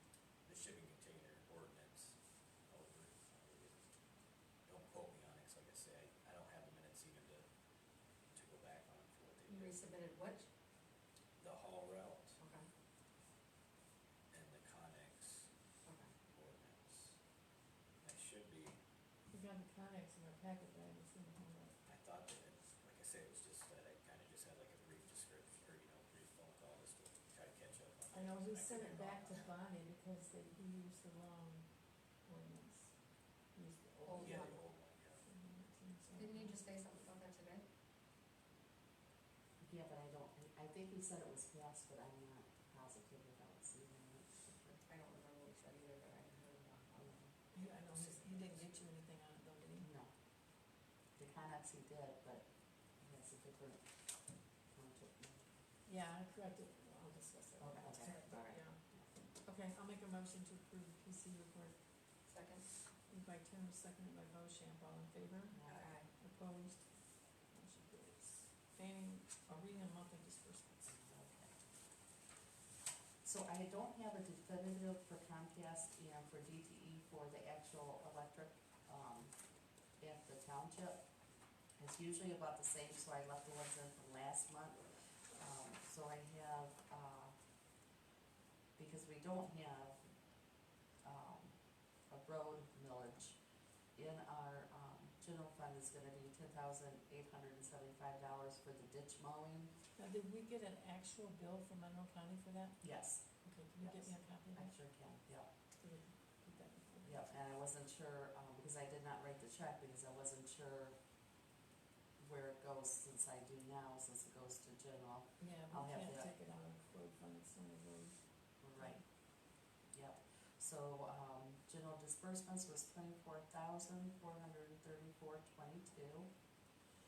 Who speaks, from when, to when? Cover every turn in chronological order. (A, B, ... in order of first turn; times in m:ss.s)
0:00.4-0:02.2 A
0:02.7-0:03.9 A
0:04.7-0:07.5 A
0:08.3-0:09.9 A
0:09.5-0:10.5 B
0:11.4-0:12.4 A
0:12.4-0:12.7 B
0:14.3-0:15.5 A
0:15.8-0:16.1 B
0:16.2-0:17.2 A
0:18.0-0:18.8 A
0:19.3-0:21.8 C
0:21.9-0:29.5 A
0:28.1-0:34.5 C
0:34.0-0:34.6 B
0:34.2-0:35.2 A
0:35.2-0:36.6 C
0:36.1-0:37.6 B
0:39.6-0:44.8 D
0:44.9-0:48.7 B
0:47.0-0:47.3 D
0:47.5-0:49.9 C
0:49.8-0:50.1 D
0:51.2-0:53.8 D
0:54.7-0:55.5 D
0:55.9-1:01.8 C
0:57.6-0:59.1 D
0:58.2-0:58.6 B
1:02.3-1:02.6 B
1:03.1-1:11.0 C
1:05.5-1:06.0 D
1:05.7-1:06.1 B
1:10.9-1:11.5 D
1:13.2-1:19.3 D
1:20.0-1:21.0 D
1:21.8-1:27.4 D
1:28.8-1:30.0 D
1:31.0-1:31.6 D
1:32.1-1:33.4 D
1:34.0-1:39.7 D
1:40.0-1:44.8 C
1:42.8-1:45.5 D
1:45.8-1:47.2 C
1:47.0-1:51.0 D
1:52.2-1:56.3 D
1:55.4-1:59.0 C
1:58.6-1:59.0 D
1:59.9-2:06.3 D